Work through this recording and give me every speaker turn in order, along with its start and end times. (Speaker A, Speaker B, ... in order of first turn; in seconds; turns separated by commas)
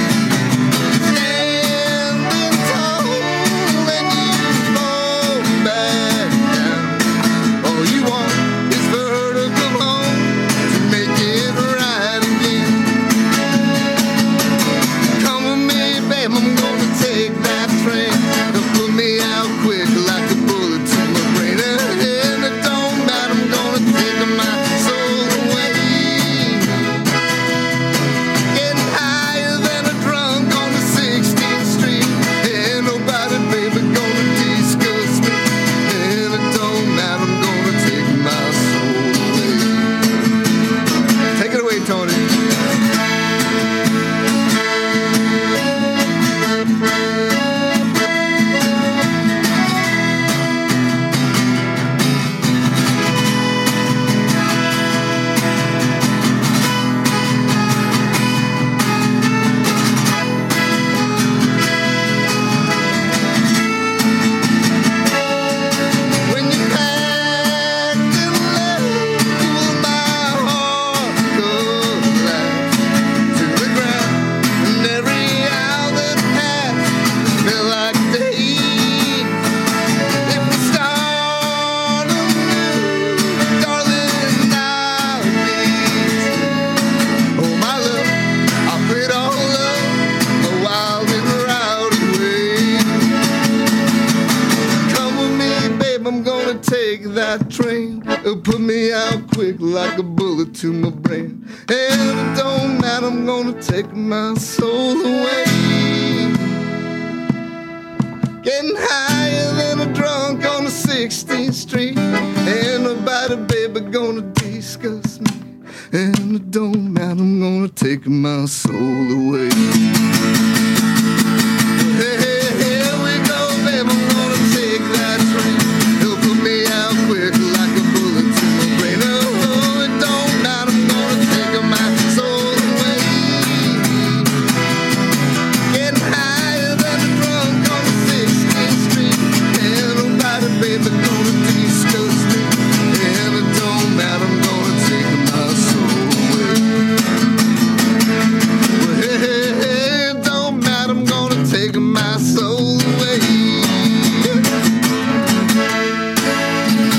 Speaker A: 0.9-13.1, Speaker A: 15.1-27.1, Speaker A: 28.5-40.2, Speaker A: 41.3-42.6, Speaker A: 66.2-79.4, Speaker A: 80.2-86.7, Speaker A: 87.3-93.3, Speaker A: 94.8-106.7, Speaker A: 108.4-119.9, Speaker A: 121.7-134.4, Speaker A: 135.7-146.9, Speaker A: 148.8-154.4